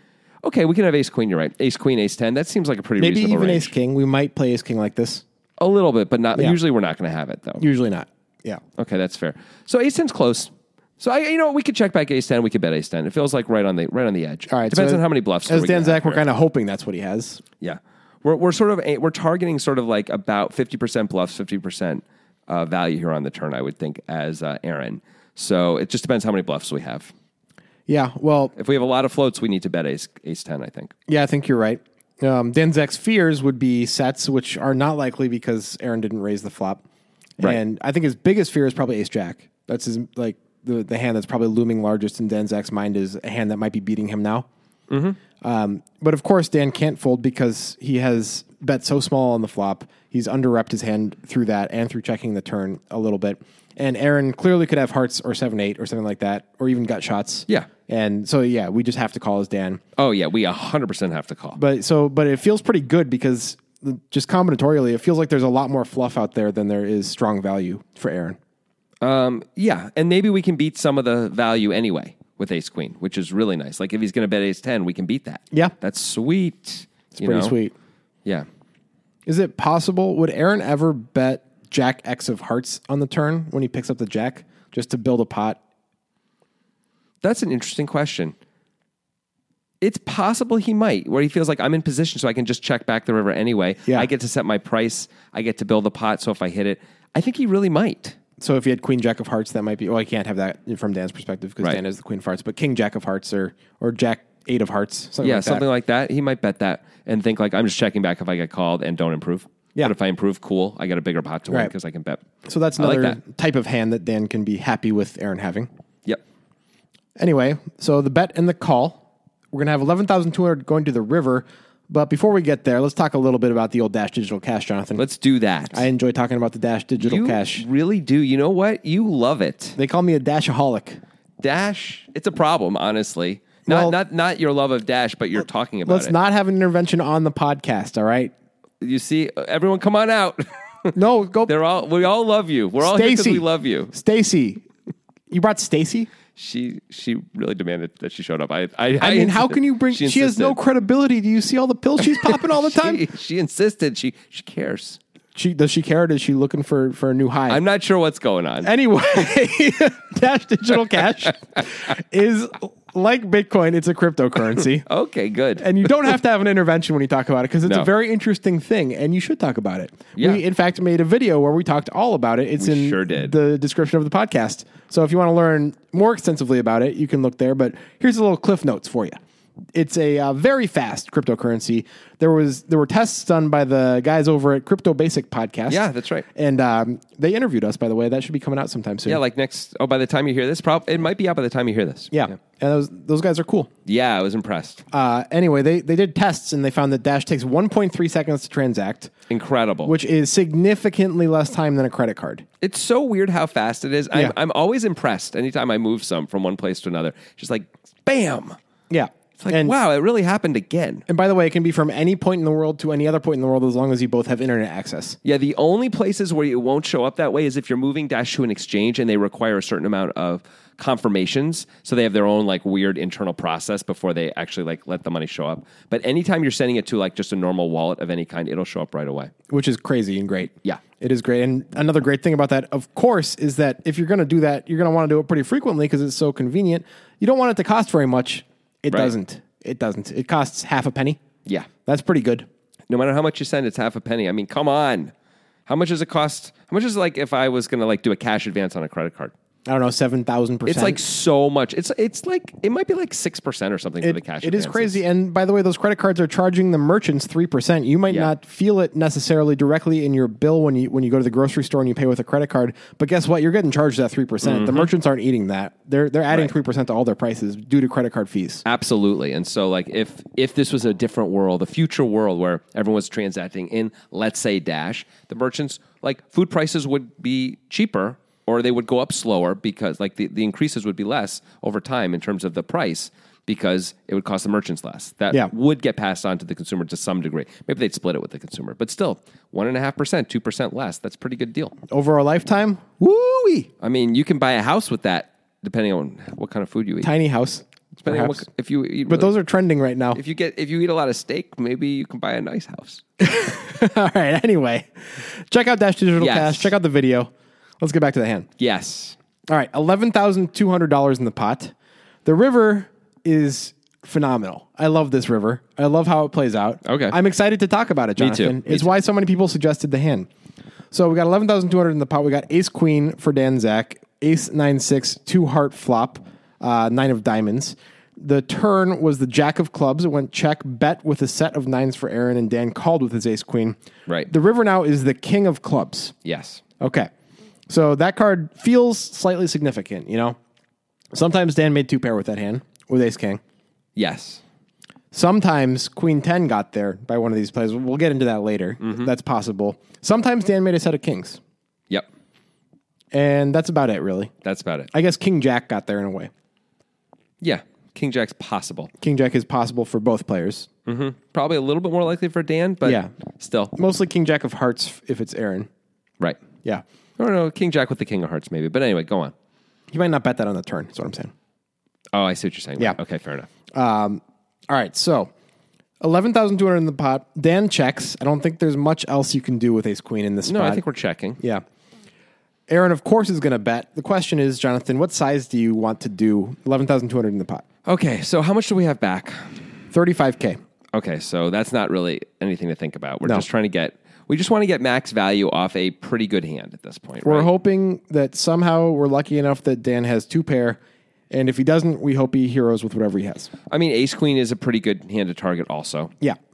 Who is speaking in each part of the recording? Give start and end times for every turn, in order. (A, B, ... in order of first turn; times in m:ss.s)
0:00.4-0:03.7 A
0:03.0-0:05.2 B
0:05.6-0:07.7 A
0:07.6-0:08.6 B
0:08.8-0:16.2 A
0:14.5-0:17.4 B
0:17.6-0:27.1 A
0:27.9-0:28.5 B
0:28.6-0:30.9 A
0:31.1-0:36.8 B
0:37.4-0:44.5 B
0:44.9-0:45.2 A
0:45.4-0:59.8 B
1:00.0-1:01.6 A
1:01.6-1:08.4 B
1:09.0-1:17.6 A
1:17.2-1:17.7 B
1:19.3-1:25.6 B
1:27.2-1:28.4 A
1:29.8-1:38.2 A
1:38.4-1:45.6 B
1:45.2-1:52.2 A
1:52.4-1:55.7 B
1:52.8-1:53.2 A
1:57.2-2:05.0 B
2:05.0-2:05.9 A
2:05.7-2:07.6 B
2:07.0-2:09.8 A
2:09.8-2:11.0 B
2:11.4-2:16.2 A
2:13.7-2:14.0 B
2:15.9-2:18.3 B
2:18.8-2:23.9 A
2:20.9-2:21.5 B
2:22.8-2:24.6 B
2:25.3-2:26.1 B
2:26.4-2:30.6 A
2:29.0-2:33.0 B
2:32.2-2:35.0 A
2:35.4-2:37.6 B
2:37.5-2:38.7 A
2:38.6-2:44.9 B
2:44.8-2:45.7 A
2:45.6-2:59.2 B
2:50.2-2:50.4 A
2:52.6-2:53.3 A
2:59.7-3:09.2 B
3:05.7-3:06.3 A
3:09.0-3:12.3 A
3:12.1-3:13.7 B
3:13.9-3:14.8 A
3:14.9-3:19.1 B
3:19.3-3:19.9 A
3:19.9-3:22.5 B
3:22.6-3:28.6 A
3:28.9-3:29.8 B
3:29.4-3:31.0 A
3:31.1-3:35.2 B
3:35.2-3:49.3 A
3:49.5-4:01.2 B
4:01.9-4:02.5 B
4:02.9-4:05.1 A
4:05.7-4:09.3 A
4:09.7-4:11.0 B
4:10.7-4:15.0 A
4:14.0-4:28.6 B
4:24.4-4:24.9 A
4:28.6-4:51.8 A
4:51.9-4:53.7 B
4:53.8-4:57.1 A
4:57.0-4:58.4 B
4:58.0-4:59.3 A
4:59.1-5:00.2 B
5:00.1-5:03.0 A
5:03.2-5:08.5 B
5:06.2-5:06.7 A
5:08.6-5:09.2 A
5:09.5-5:11.7 B
5:12.2-5:20.3 B
5:16.8-5:17.2 A
5:18.2-5:18.9 A
5:20.9-5:36.2 B
5:36.2-5:36.6 A
5:36.8-5:37.1 B
5:37.7-5:40.4 B
5:41.1-5:43.4 B
5:44.0-5:44.4 A
5:45.1-5:51.4 B
5:48.8-5:49.1 A
5:53.1-5:54.3 B
5:54.4-5:54.9 A
5:54.9-5:56.3 B
5:57.4-5:58.9 A
5:59.0-6:00.7 B
6:00.9-6:03.7 A
6:02.8-6:03.1 B
6:03.7-6:05.7 B
6:07.2-6:09.3 A
6:09.9-6:11.3 B
6:12.1-6:13.5 A
6:13.7-6:15.3 B
6:16.0-6:20.8 B
6:20.4-6:21.4 A
6:21.4-6:21.6 B
6:22.7-6:27.6 B
6:27.9-6:29.5 A
6:29.9-6:30.6 B
6:30.9-6:37.5 A
6:37.2-6:40.8 B
6:41.3-6:43.5 B
6:43.7-6:46.1 A